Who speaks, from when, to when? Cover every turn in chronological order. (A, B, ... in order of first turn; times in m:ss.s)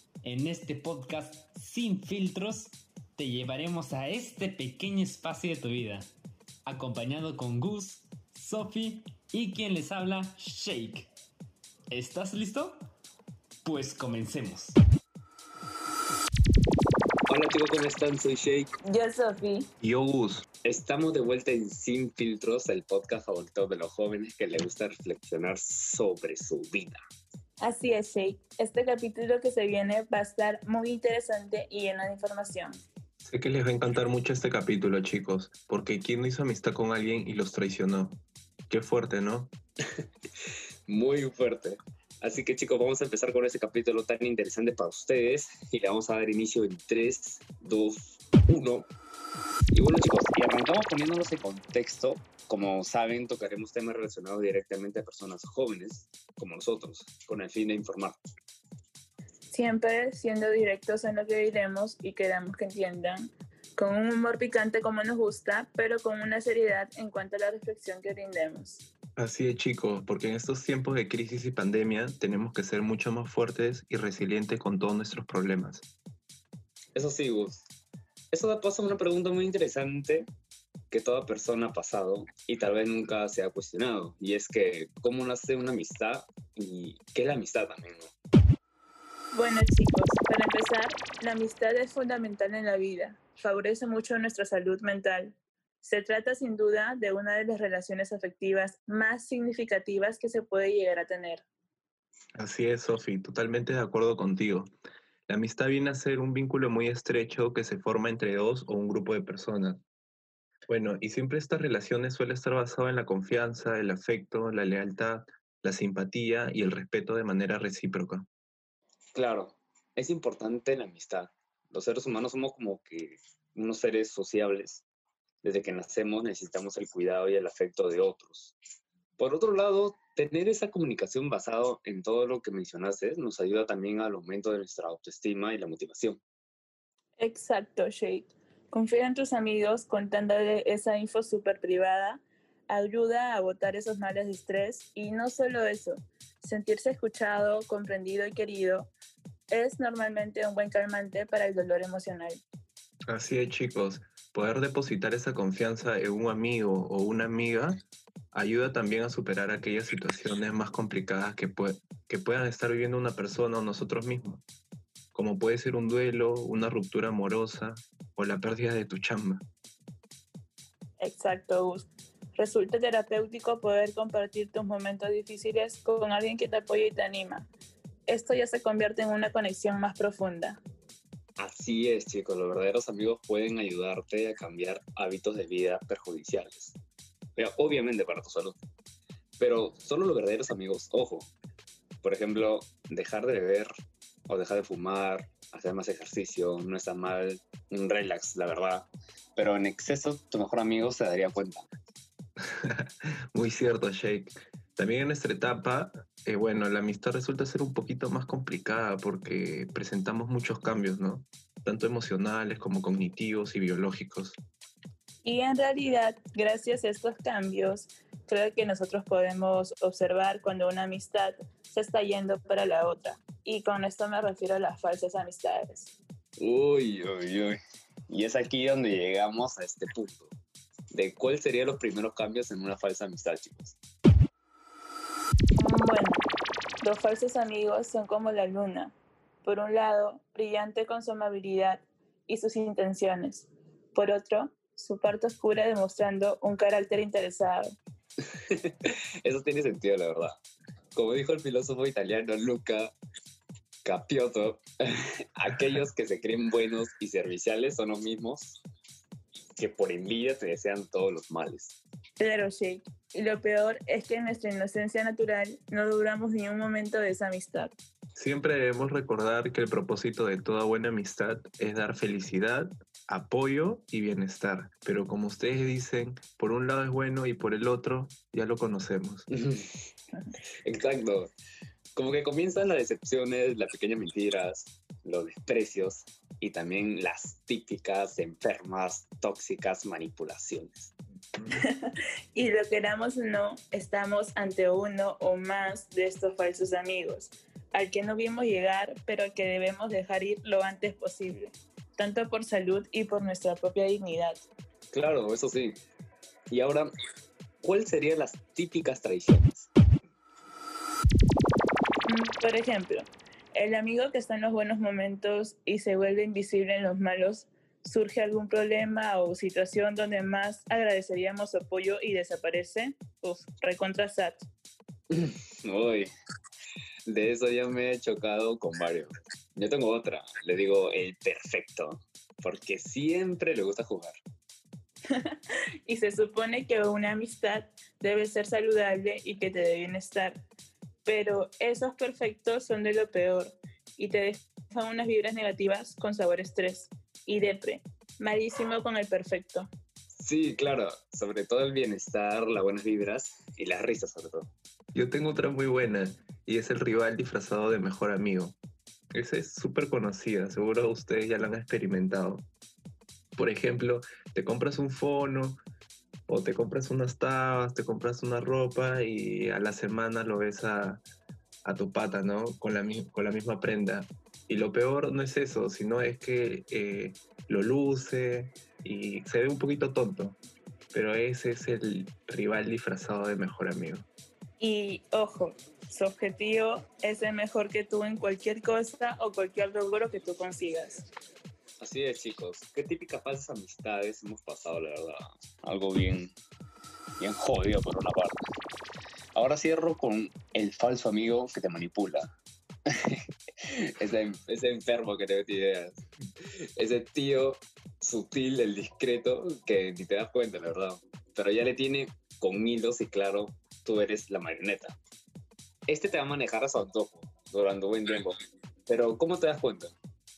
0:00.2-0:06.1 A
0:06.6-0:11.1 A
0:11.9-0:12.8 A
0:13.6-0:14.8 A
0:17.3-0:18.7 B
0:18.8-0:19.7 C
0:19.8-0:20.4 D
0:20.6-0:27.0 B
0:27.6-0:32.8 C
0:33.2-0:39.5 D
0:40.9-0:48.9 B
0:49.7-0:58.2 B
0:59.5-1:08.8 C
1:09.2-1:15.8 D
1:16.9-1:17.6 B
1:18.3-1:20.3 B
1:20.9-1:28.1 B
1:29.3-1:41.4 C
1:42.4-1:44.7 D
1:45.3-1:49.8 D
1:50.7-1:58.3 D
1:59.1-2:04.8 B
2:05.4-2:08.5 B
2:09.2-2:16.2 B
2:17.2-2:28.9 C
2:29.5-2:32.4 C
2:33.1-2:37.8 D
2:38.3-2:44.4 D
2:45.1-2:49.4 D
2:51.0-2:57.5 C
2:58.0-3:00.6 C
3:01.4-3:06.8 B
3:07.4-3:08.6 B
3:09.4-3:11.3 B
3:12.0-3:13.7 B
3:14.3-3:21.6 B
3:22.6-3:34.4 D
3:35.2-3:45.9 C
3:46.4-3:47.6 B
3:48.1-3:50.3 B
3:50.9-3:53.8 B
3:55.5-3:56.2 C
3:56.8-4:07.7 C
4:08.5-4:10.4 B
4:10.9-4:12.9 B
4:13.8-4:14.6 B
4:15.4-4:18.6 B
4:19.6-4:21.8 B
4:22.2-4:27.7 C
4:28.1-4:39.2 D
4:39.3-4:39.6 B
4:40.6-4:41.3 B
4:42.0-4:50.9 B
4:51.5-5:04.4 C
5:04.9-5:05.8 B
5:06.5-5:06.9 B
5:07.6-5:09.7 B
5:12.0-5:24.4 C
5:25.1-5:26.1 B
5:27.1-5:34.2 B
5:35.1-5:40.4 C
5:41.0-5:49.7 C
5:50.2-5:54.5 B
5:54.9-5:58.6 D
5:59.1-6:02.4 D
6:03.4-6:05.6 D
6:06.3-6:11.0 D
6:11.6-6:20.4 D
6:20.9-6:24.1 D
6:24.6-6:31.1 C
6:31.8-6:36.3 B
6:37.2-6:38.4 B
6:39.3-6:42.3 B
6:43.0-6:46.0 B
6:46.8-6:55.0 B
6:55.9-6:59.9 B